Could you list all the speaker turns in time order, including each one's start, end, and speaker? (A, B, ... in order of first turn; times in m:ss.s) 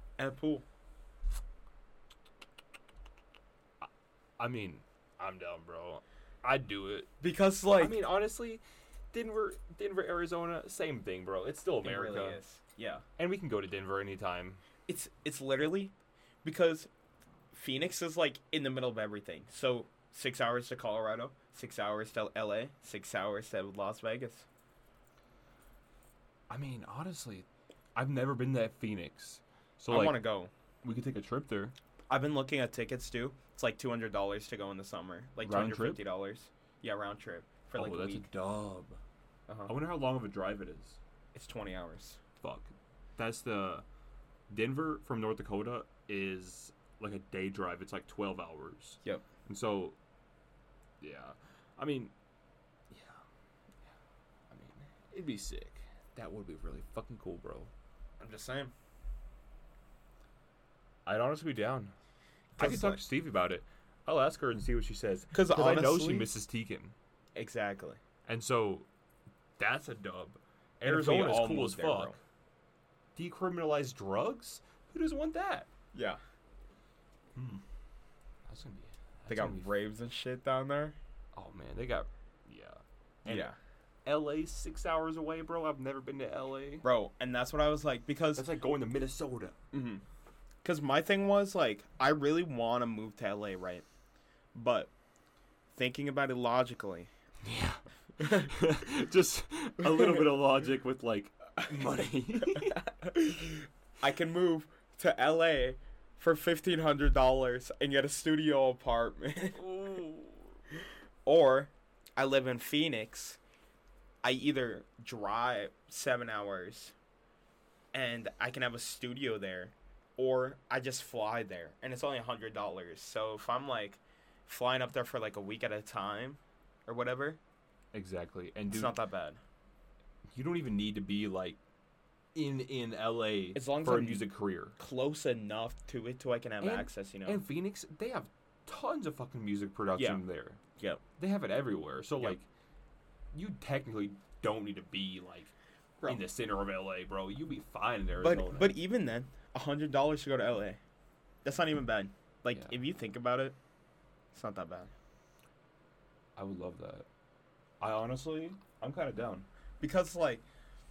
0:00.2-0:00.6 A
0:03.8-0:07.1 B
0:07.2-0:08.0 A
0:07.8-0:12.4 B
0:11.8-0:13.0 A
0:13.2-0:14.6 B
0:14.9-0:15.9 A
0:16.4-0:16.9 A
0:17.5-0:24.5 A
0:26.5-0:30.2 B
0:29.9-0:30.5 A
0:30.8-0:31.8 B
0:32.1-0:38.3 A
0:35.4-0:36.0 B
0:37.8-0:39.0 B
0:39.5-0:39.7 A
0:39.7-0:41.0 B
0:41.3-0:42.2 A
0:42.4-0:43.8 B
0:44.5-0:50.0 B
0:51.0-0:52.1 B
0:52.9-0:53.2 B
0:54.5-0:57.7 B
0:58.2-0:58.7 A
1:01.1-1:01.9 B
1:02.6-1:03.0 A
1:02.6-1:07.0 B
1:05.3-1:06.3 A
1:07.4-1:08.0 A
1:08.3-1:08.9 B
1:09.6-1:12.2 B
1:10.8-1:12.2 A
1:13.2-1:15.7 B
1:15.9-1:16.2 A
1:17.4-1:17.6 B
1:18.5-1:19.7 B
1:19.3-1:21.0 A
1:21.4-1:23.5 B
1:23.3-1:23.6 A
1:24.0-1:26.8 B
1:26.8-1:28.5 A
1:28.4-1:29.6 B
1:29.7-1:30.0 A
1:30.6-1:33.8 A
1:34.5-1:34.9 A
1:35.7-1:37.1 A
1:37.4-1:42.8 B
1:38.2-1:38.6 A
1:39.9-1:40.2 A
1:42.5-1:49.7 A
1:49.6-1:50.6 B
1:51.3-1:53.4 A
1:54.2-1:57.0 A
1:57.9-2:07.4 A
2:07.9-2:09.0 B
2:08.7-2:09.4 A
2:10.3-2:11.6 B
2:12.4-2:14.8 B
2:13.6-2:17.4 A
2:16.6-2:20.6 B
2:20.0-2:20.2 A
2:20.8-2:21.0 A
2:21.2-2:22.5 B
2:23.3-2:25.5 B
2:26.1-2:28.8 B
2:28.2-2:30.8 A
2:31.4-2:33.6 A
2:34.3-2:34.9 A
2:36.4-2:37.1 B
2:37.8-2:39.5 B
2:39.8-2:40.4 A